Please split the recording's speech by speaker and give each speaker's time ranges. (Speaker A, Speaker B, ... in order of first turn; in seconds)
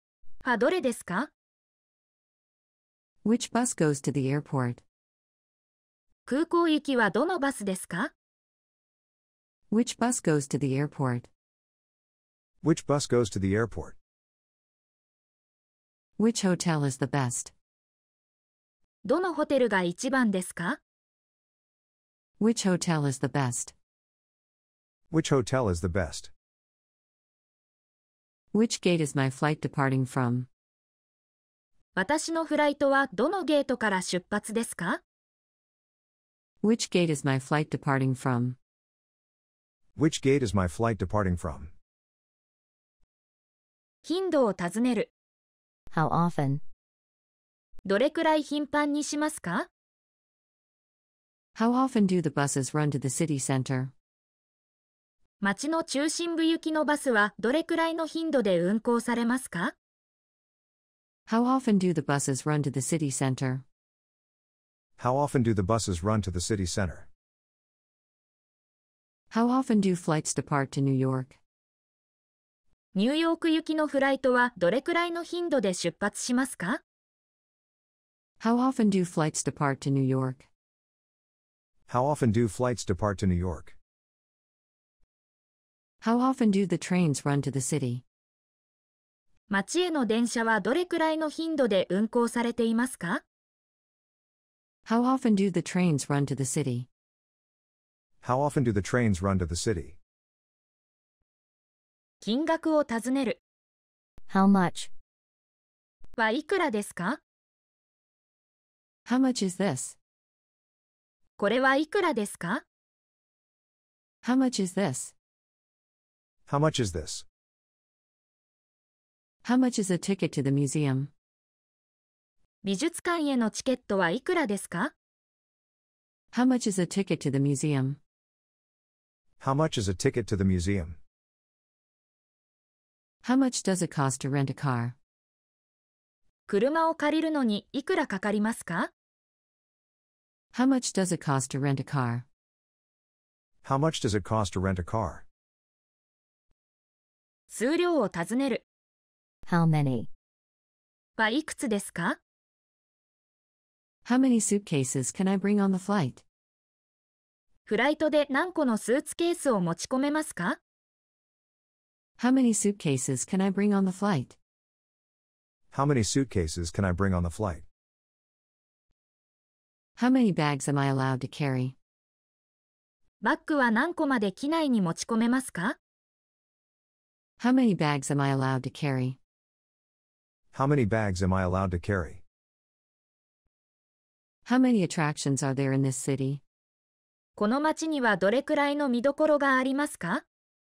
Speaker A: 0.4-1.3, 6.2-8.1, 19.0-20.8, 31.9-35.0, 44.0-45.1, 47.8-49.7, 55.4-59.7, 72.9-76.8, 89.5-93.2, 102.2-103.4, 106.2-107.2, 111.4-112.6, 122.6-124.9, 136.5-138.9, 147.5-148.6, 151.2-152.2, 157.7-160.6, 173.2-175.8, 187.4-190.2
Speaker B: 3.2-4.8, 9.7-11.3, 16.2-17.5, 22.4-23.7, 28.5-30.5, 36.6-38.6, 51.5-53.9, 61.3-63.6, 69.3-71.4, 78.4-80.5, 86.0-88.0, 94.8-96.9, 109.0-110.0, 114.2-115.1, 119.4-121.1, 126.3-128.0, 133.2-134.9, 140.5-142.2, 154.0-156.2, 162.2-164.4, 170.0-171.8, 177.4-179.2, 184.4-186.4
Speaker C: 12.6-13.9, 25.1-26.3, 40.0-41.7, 65.0-67.1, 81.9-83.8, 98.2-100.0, 116.5-117.2, 129.4-131.0, 143.6-145.2, 165.7-167.6, 180.5-182.2
Speaker D: 45.9-46.6, 104.3-104.9, 149.5-150.1